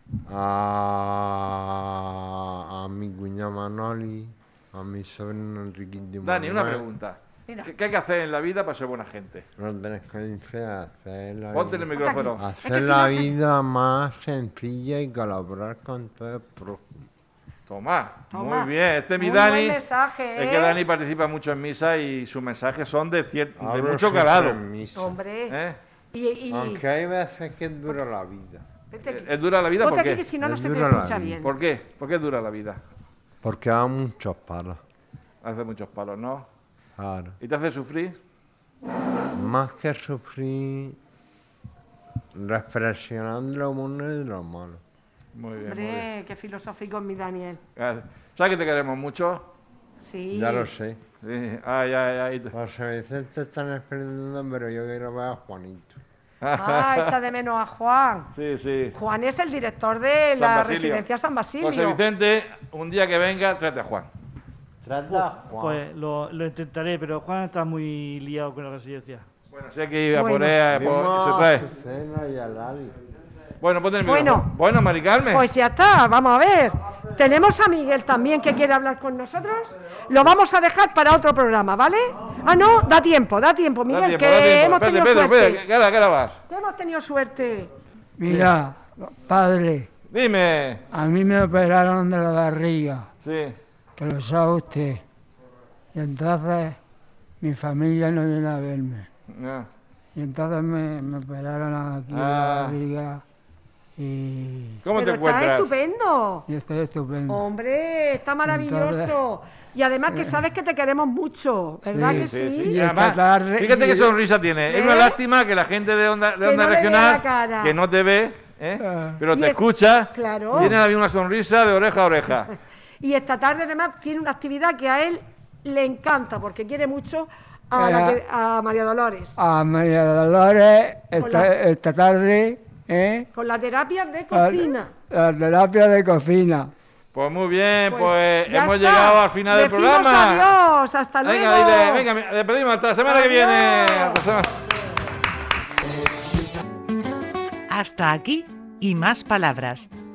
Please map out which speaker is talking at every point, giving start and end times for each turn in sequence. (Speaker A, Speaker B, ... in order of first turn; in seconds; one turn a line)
Speaker A: 0.3-6.8
Speaker B: 6.2-9.5
Speaker A: 9.6-17.0
Speaker B: 11.5-12.4
Speaker C: 11.9-13.3
Speaker B: 17.7-19.8
Speaker C: 18.3-20.8
Speaker B: 20.4-24.6
Speaker A: 23.6-25.2
Speaker C: 24.9-25.6
Speaker B: 25.5-25.8
Speaker C: 26.1-26.9
Speaker A: 26.5-28.6
Speaker C: 28.9-31.5
Speaker B: 29.1-30.2
Speaker A: 30.4-31.4
Speaker B: 31.4-32.8
Speaker A: 33.4-34.8
Speaker B: 35.4-36.5
Speaker A: 37.0-37.4
Speaker B: 37.4-38.1
Speaker A: 39.3-41.0
Speaker A: 42.4-44.8
Speaker B: 45.3-46.1
Speaker C: 45.6-47.6
Speaker B: 47.8-49.5
Speaker C: 50.0-50.7
Speaker A: 50.3-51.0
Speaker B: 51.2-52.5
Speaker A: 52.5-56.0
Speaker B: 56.4-57.1
Speaker C: 56.5-58.3
Speaker B: 58.4-59.0
Speaker C: 58.9-62.0
Speaker B: 60.4-61.0
Speaker B: 61.6-64.1
Speaker A: 64.8-65.8
Speaker D: 65.1-69.2
Speaker B: 69.5-71.6
Speaker C: 70.1-70.6
Speaker A: 70.7-73.0
Speaker B: 73.6-75.5
Speaker C: 74.1-74.5
Speaker C: 75.3-85.6
Speaker B: 83.9-86.4
Speaker C: 86.5-87.7
Speaker E: 88.2-89.9
Speaker B: 88.2-88.5
Speaker B: 90.1-90.8
Speaker E: 90.9-93.1
Speaker B: 93.2-93.6
Speaker E: 94.0-95.0
Speaker E: 95.9-96.8
Speaker E: 97.4-99.1
Speaker B: 99.3-99.7
Speaker E: 100.2-103.2
Speaker B: 102.1-102.8
Speaker E: 104.0-104.8
Speaker B: 104.8-105.7
Speaker C: 105.0-106.5
Speaker E: 106.5-107.5
Speaker C: 107.3-112.8
Speaker E: 108.5-109.2
Speaker E: 110.1-110.4
Speaker E: 111.8-114.1
Speaker B: 112.2-122.5
Speaker C: 114.7-115.2
Speaker C: 116.4-117.8
Speaker E: 118.8-119.2
Speaker C: 119.3-120.8
Speaker C: 123.0-129.3
Speaker E: 127.7-128.2
Speaker E: 129.4-133.3
Speaker C: 131.2-131.5
Speaker C: 133.3-134.9
Speaker E: 134.3-136.7
Speaker B: 137.1-140.5
Speaker C: 137.9-142.1
Speaker B: 141.2-144.5
Speaker C: 143.0-144.2
Speaker F: 147.7-149.9